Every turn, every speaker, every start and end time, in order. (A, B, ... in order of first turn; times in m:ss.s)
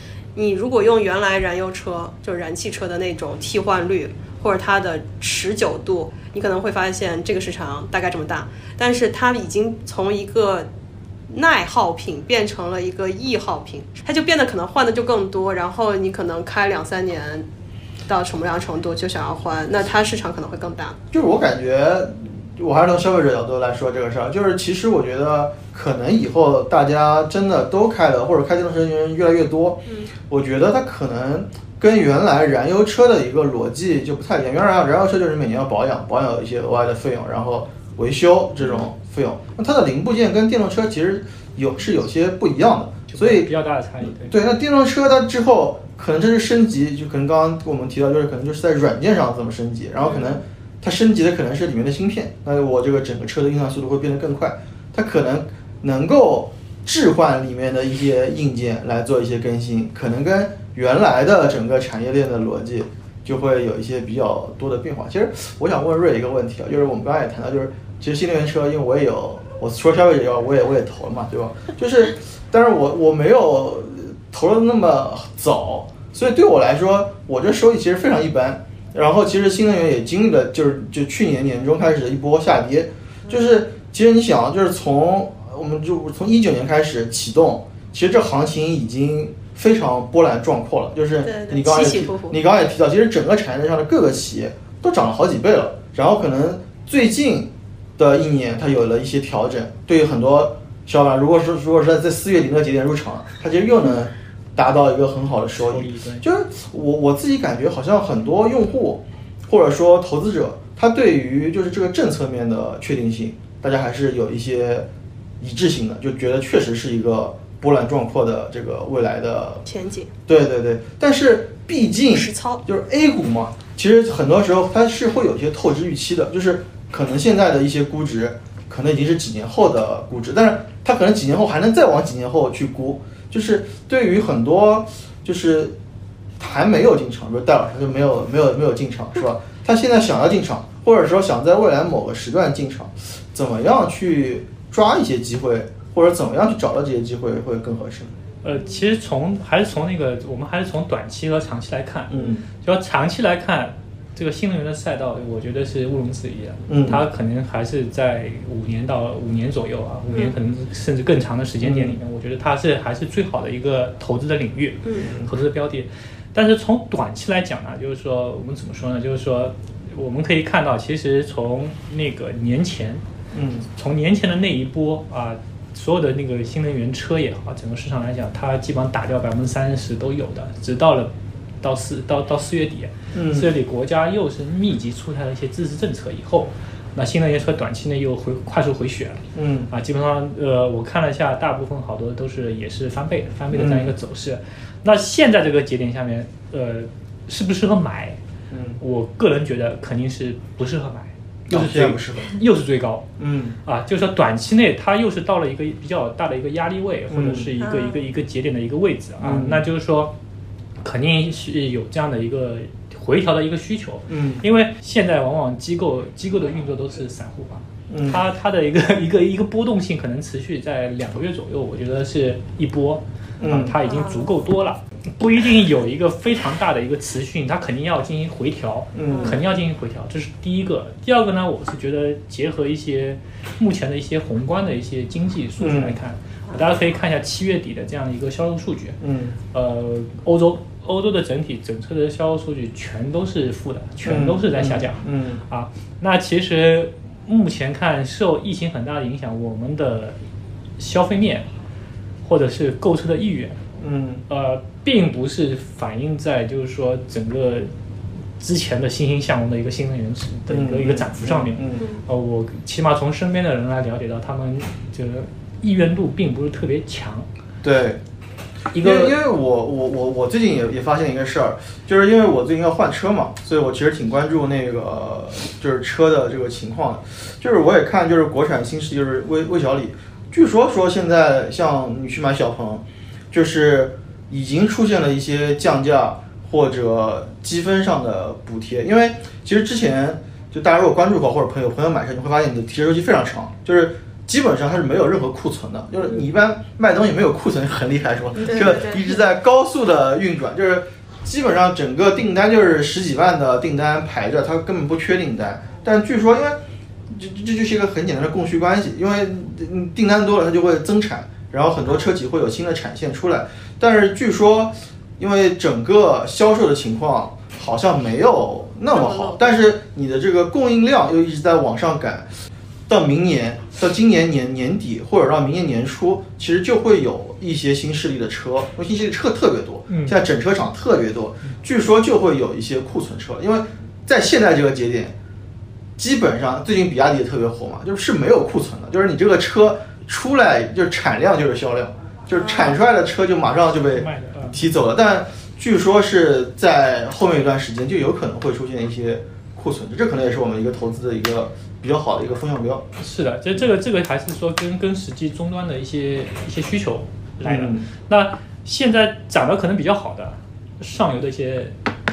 0:00.3-0:10.7 A
0:11.3-0:17.5 A
0:18.1-0:21.0 A
0:21.1-0:43.5 B
0:43.1-0:44.4 C
0:44.0-1:54.9 B
0:50.0-0:50.4 A
1:31.2-1:32.4 A
1:45.6-1:46.2 C
1:55.4-1:59.6 B
1:59.6-2:00.1 A
2:00.3-2:15.8 B
2:02.1-2:02.6 A
2:16.4-2:28.1 B
2:28.4-2:53.0 C
2:32.1-2:32.4 B
2:32.1-2:32.4 A
2:36.7-2:37.0 B
2:41.6-2:42.0 B
2:45.0-2:45.3 B
2:53.3-2:53.7 B
2:53.7-3:01.1 C
3:01.6-3:18.2 C
3:03.1-3:03.5 B
3:09.3-3:09.7 B
3:13.5-3:13.9 B
3:18.5-3:18.8 B
3:18.8-3:23.1 C
3:21.5-3:22.4 B
3:23.2-3:23.6 B
3:23.6-3:30.1 C
3:27.1-3:27.5 B
3:27.6-3:28.0 A
3:29.2-3:29.7 B
3:30.8-3:59.0 C
3:34.1-3:34.4 B
3:37.9-3:38.2 B
3:43.4-3:43.8 B
3:43.8-3:44.4 A
3:48.9-3:49.4 B
3:49.1-3:49.4 A
3:55.6-3:56.0 B
3:59.0-3:59.4 B
3:59.5-4:10.2 C
4:04.0-4:05.4 B
4:10.8-4:11.5 C
4:12.2-4:13.6 C
4:13.8-4:14.2 B
4:14.3-4:17.7 C
4:18.4-4:27.3 C
4:20.5-4:21.9 B
4:27.6-4:28.0 B
4:28.7-4:29.2 C
4:28.7-5:06.6 B
4:58.4-4:59.2 A
5:07.1-5:22.3 B
5:18.9-5:19.7 A
5:22.9-5:35.1 B
5:29.9-5:30.2 C
5:36.0-5:52.8 B
5:42.3-5:42.7 A
5:44.0-5:44.6 C
5:53.0-6:01.7 C
5:57.4-5:57.8 B